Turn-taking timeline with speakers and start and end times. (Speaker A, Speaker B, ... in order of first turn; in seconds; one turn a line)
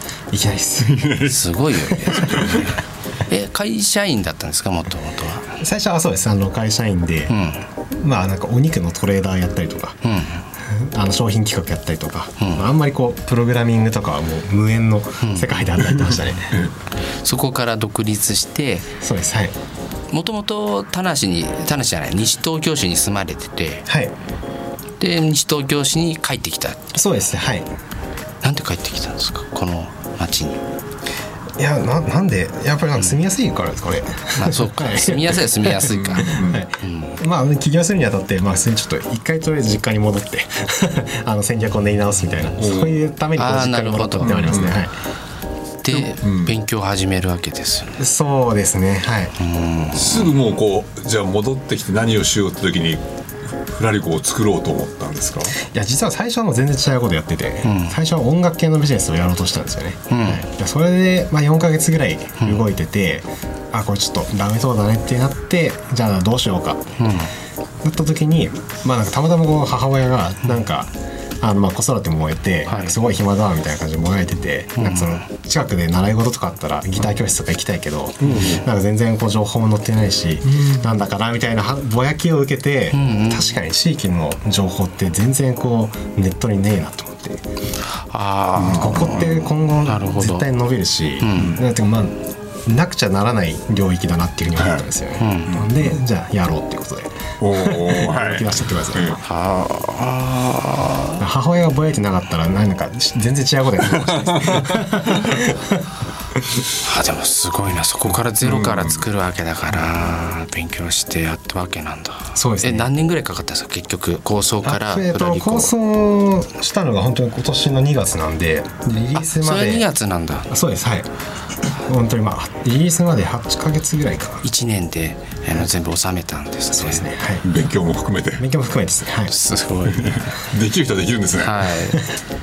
Speaker A: 0.3-1.1
Speaker B: 0.8-2.6
Speaker C: 1.2-5.5
Speaker A: 1.9-2.8
Speaker A: 5.6-7.3
Speaker C: 7.3-7.7
Speaker A: 7.9-9.9
Speaker C: 10.0-10.4
Speaker A: 10.7-16.6
Speaker C: 12.4-12.7
Speaker C: 15.2-15.5
Speaker C: 17.2-18.9
Speaker A: 19.0-19.5
Speaker C: 20.1-23.9
Speaker A: 23.9-24.1
Speaker C: 25.0-26.9
Speaker A: 26.9-27.7
Speaker C: 28.4-30.6
Speaker A: 31.6-44.9
Speaker C: 34.4-37.2
Speaker B: 35.8-36.6
Speaker B: 42.5-43.0
Speaker C: 43.4-44.5
Speaker B: 44.2-44.8
Speaker C: 45.8-48.0
Speaker B: 45.9-46.5
Speaker A: 48.0-49.3
Speaker C: 49.4-50.3
Speaker B: 49.9-53.0
Speaker B: 53.7-55.5
Speaker A: 55.6-67.1
Speaker C: 57.6-58.0
Speaker C: 60.1-60.4
Speaker C: 67.0-67.3
Speaker A: 67.8-70.9
Speaker A: 71.4-87.4
Speaker C: 72.7-73.0
Speaker C: 74.8-75.2
Speaker B: 78.3-78.6
Speaker C: 78.3-78.6
Speaker B: 80.5-80.9
Speaker C: 82.9-83.6
Speaker C: 88.1-90.5
Speaker B: 88.5-89.3
Speaker A: 88.7-99.2
Speaker C: 91.2-91.5
Speaker B: 94.5-94.8
Speaker C: 95.2-95.5
Speaker B: 95.5-96.0
Speaker B: 97.4-99.2
Speaker C: 99.2-101.2
Speaker A: 101.2-105.8
Speaker B: 104.1-105.1
Speaker C: 106.8-115.7
Speaker B: 108.4-109.0
Speaker A: 112.3-112.9
Speaker A: 114.6-119.8
Speaker C: 119.2-120.5
Speaker A: 120.5-121.1
Speaker A: 121.7-124.4
Speaker C: 124.4-127.0
Speaker A: 126.7-127.4
Speaker B: 127.4-128.4
Speaker A: 128.4-129.3
Speaker C: 129.3-130.3
Speaker B: 129.8-131.7
Speaker C: 131.4-132.1